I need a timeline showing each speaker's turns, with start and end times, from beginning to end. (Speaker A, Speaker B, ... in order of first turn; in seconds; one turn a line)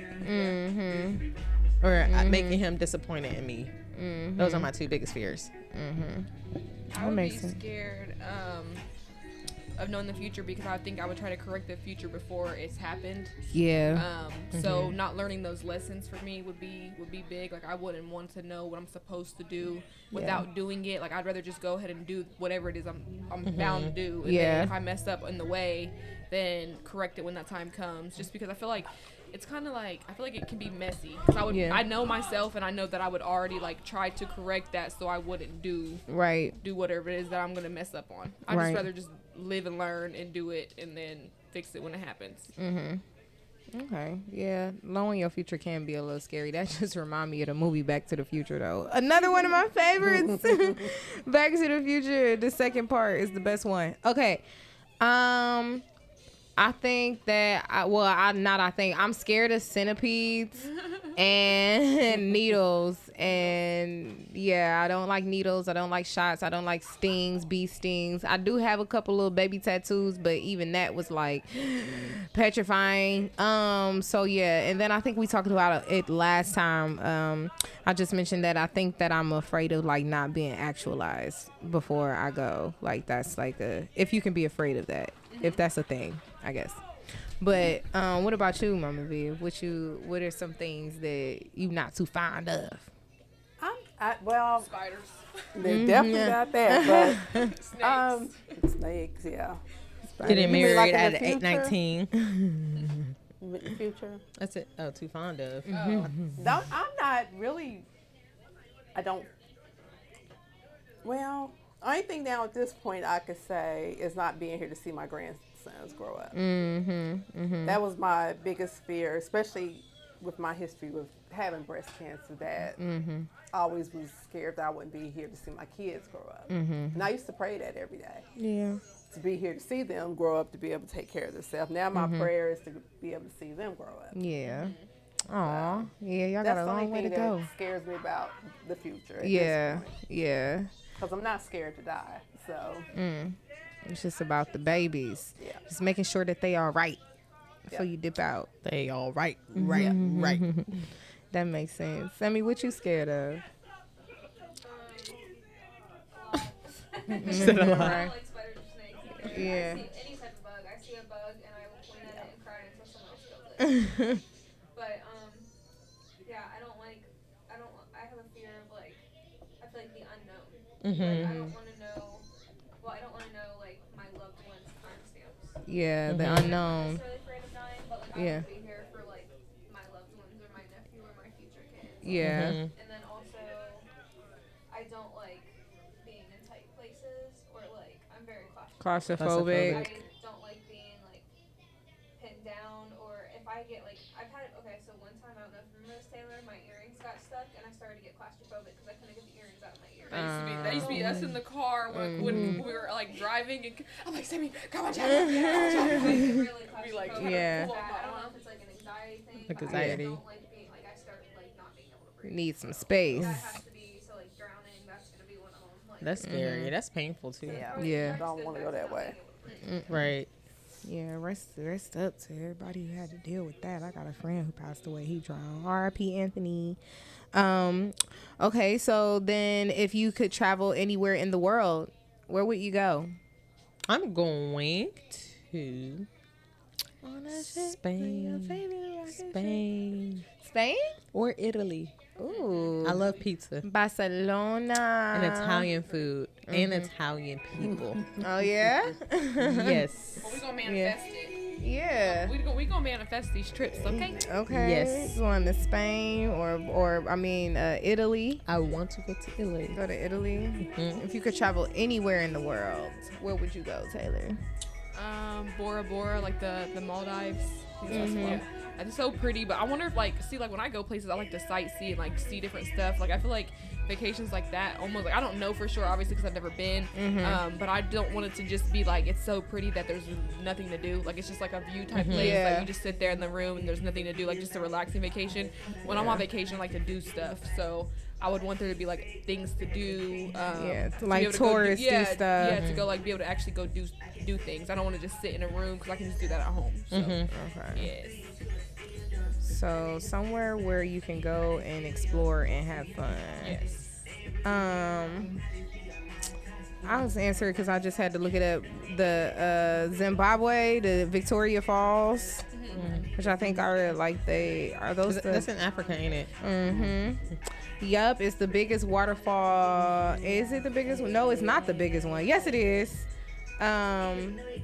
Speaker A: 0.2-1.3
Speaker B: 1.8-3.7
Speaker A: 2.0-2.6
Speaker A: 3.9-4.7
Speaker B: 4.4-5.5
Speaker A: 5.7-6.3
Speaker C: 6.9-8.8
Speaker A: 7.0-7.6
Speaker C: 9.8-36.0
Speaker A: 13.5-14.1
Speaker B: 14.5-14.9
Speaker A: 20.1-20.5
Speaker B: 23.4-23.9
Speaker A: 24.2-24.7
Speaker A: 31.5-31.8
Speaker A: 36.1-36.5
Speaker C: 36.6-42.5
Speaker A: 38.5-38.9
Speaker A: 42.6-43.0
Speaker A: 43.7-54.4
Speaker A: 55.0-55.8
Speaker A: 56.6-86.8
Speaker C: 85.3-85.6
Speaker A: 87.4-92.9
Speaker D: 93.6-94.7
Speaker C: 94.6-95.5
Speaker D: 95.5-97.2
Speaker A: 95.7-97.5
Speaker C: 97.2-98.5
Speaker D: 97.8-101.8
Speaker A: 100.2-100.8
Speaker B: 100.2-102.2
Speaker A: 102.2-103.1
Speaker D: 103.4-104.2
Speaker B: 104.4-106.1
Speaker A: 105.7-106.2
Speaker C: 105.7-106.1
Speaker D: 106.1-107.9
Speaker D: 109.0-109.3
Speaker D: 111.0-116.4
Speaker A: 116.3-117.8
Speaker D: 117.7-122.8
Speaker A: 122.8-123.3
Speaker D: 123.5-128.3
Speaker A: 126.5-127.0
Speaker A: 128.4-128.8
Speaker D: 129.1-134.2
Speaker A: 131.9-132.3
Speaker A: 134.1-134.8
Speaker C: 134.4-134.9
Speaker A: 135.3-137.5
Speaker D: 135.4-135.9
Speaker D: 136.4-139.9
Speaker A: 139.2-140.7
Speaker D: 141.0-142.9
Speaker A: 142.9-147.0
Speaker A: 147.7-148.5
Speaker B: 148.6-150.8
Speaker A: 149.6-150.8
Speaker A: 151.3-153.4
Speaker E: 154.6-155.4
Speaker E: 156.1-165.5
Speaker A: 157.2-158.2
Speaker B: 157.2-158.1
Speaker A: 159.2-159.9
Speaker D: 162.1-162.3
Speaker A: 163.6-164.2
Speaker E: 166.2-169.0
Speaker E: 169.6-172.2
Speaker B: 170.8-171.3
Speaker A: 171.1-171.5
Speaker E: 172.8-175.6
Speaker A: 175.7-177.0
Speaker B: 176.1-176.6
Speaker E: 176.2-183.9
Speaker A: 178.1-178.5
Speaker A: 182.0-182.6
Speaker B: 182.2-182.7
Speaker E: 184.7-191.3
Speaker A: 188.8-189.9
Speaker B: 189.2-190.0
Speaker E: 192.2-201.3
Speaker C: 200.1-208.3
Speaker A: 200.1-201.4
Speaker A: 201.9-202.6
Speaker D: 202.2-202.6
Speaker E: 204.9-216.6
Speaker A: 205.0-206.5
Speaker A: 207.1-207.7
Speaker B: 209.5-210.2
Speaker A: 209.7-210.0
Speaker A: 212.2-213.5
Speaker B: 216.0-217.7
Speaker A: 216.2-216.7
Speaker E: 217.4-219.9
Speaker D: 217.5-219.2
Speaker A: 217.8-218.3
Speaker A: 219.6-220.1
Speaker B: 219.9-220.3
Speaker A: 220.8-226.8
Speaker A: 227.3-233.1
Speaker B: 233.9-236.1
Speaker A: 237.0-239.7
Speaker B: 237.3-238.6
Speaker B: 239.1-240.3
Speaker A: 240.4-241.0
Speaker B: 241.1-242.0
Speaker A: 242.2-243.1
Speaker C: 242.3-242.8
Speaker B: 242.8-243.7
Speaker A: 243.6-245.7
Speaker B: 245.1-248.2
Speaker A: 246.5-246.9
Speaker A: 248.2-249.9
Speaker B: 249.4-250.3
Speaker C: 250.2-251.4
Speaker A: 250.7-251.0
Speaker A: 251.6-252.3
Speaker C: 252.0-254.3
Speaker A: 253.8-258.4
Speaker B: 254.5-255.1
Speaker B: 258.5-259.8
Speaker A: 259.7-264.4
Speaker B: 260.7-261.0
Speaker C: 264.9-297.2
Speaker A: 267.9-268.4
Speaker B: 267.9-268.4
Speaker A: 276.9-277.4
Speaker B: 281.9-282.4
Speaker A: 282.1-282.7
Speaker B: 285.9-286.2
Speaker A: 290.5-292.7
Speaker B: 292.5-292.8
Speaker B: 296.9-297.3
Speaker A: 297.3-297.9
Speaker C: 297.8-298.3
Speaker A: 299.4-303.6
Speaker C: 303.4-303.8
Speaker A: 304.4-305.4
Speaker A: 306.8-315.5
Speaker C: 312.5-312.9
Speaker B: 312.7-313.1
Speaker B: 315.1-316.3
Speaker A: 316.4-317.2
Speaker A: 317.8-323.1
Speaker A: 323.6-324.4